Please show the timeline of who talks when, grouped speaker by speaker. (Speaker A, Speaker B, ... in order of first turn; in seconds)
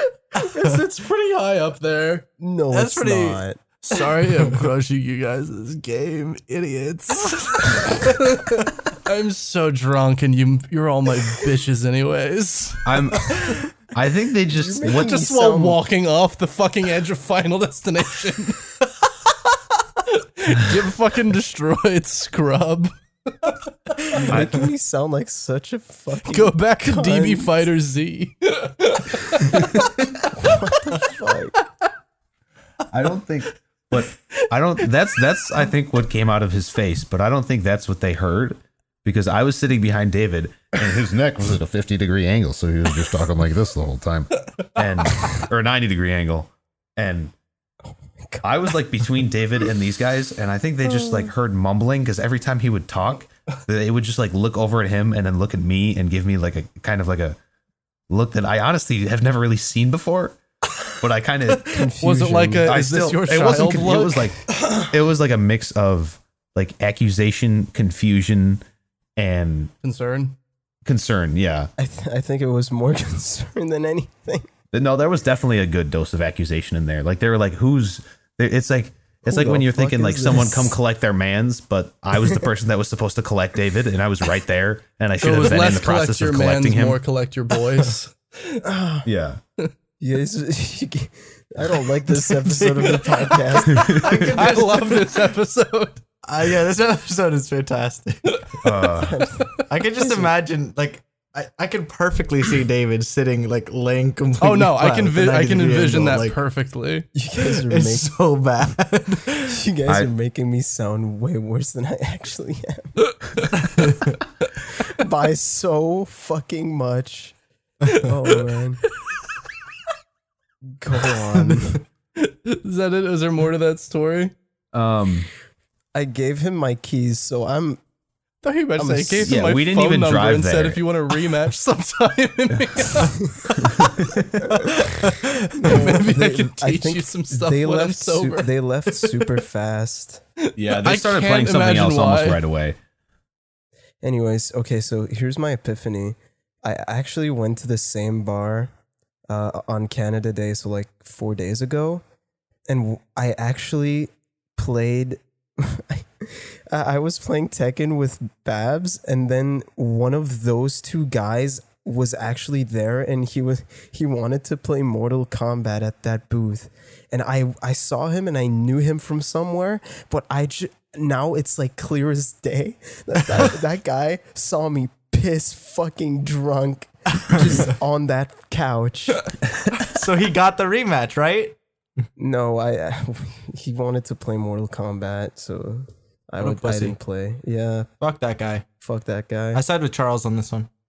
Speaker A: 0.3-2.2, 3.8-13.2, 14.8-18.7, 20.0-23.5, 26.2-29.8, 62.0-64.3, 69.8-70.3, 85.2-88.6, 94.0-96.0, 104.4-107.1, 113.0-113.5, 122.2-124.3, 128.4-133.9, 134.5-139.2, 140.4-142.4
Speaker B: 0.3-0.8, 2.7-3.4, 3.9-4.6, 92.4-95.1, 96.2-98.5, 99.7-106.4, 107.4-109.6, 113.7-114.0, 177.3-177.6, 179.8-181.6, 186.4-186.9, 188.0-188.7, 189.5-190.7
Speaker C: 2.4-3.6, 14.5-15.8, 24.2-27.6, 30.3-31.6, 61.6-62.7, 71.8-74.5, 79.2-80.8, 88.6-89.0, 90.0-94.3, 99.0-100.3, 107.1-108.1, 109.5-113.0, 114.8-117.3, 117.9-118.8, 120.8-121.8, 125.9-127.8, 128.8-129.4, 135.5-140.2, 144.0-148.7, 149.3-152.0, 152.7-179.3, 182.2-187.9, 188.8-189.6
Speaker D: 12.8-15.1, 24.3-24.6, 32.9-47.3, 48.4-57.4, 58.1-60.4, 60.9-61.8, 62.6-68.6, 69.2-69.7, 70.8-71.7, 74.7-87.0, 89.0-89.4, 93.7-94.2, 98.6-99.2, 124.7-125.3, 129.2-130.8, 133.6-134.5, 140.6-142.8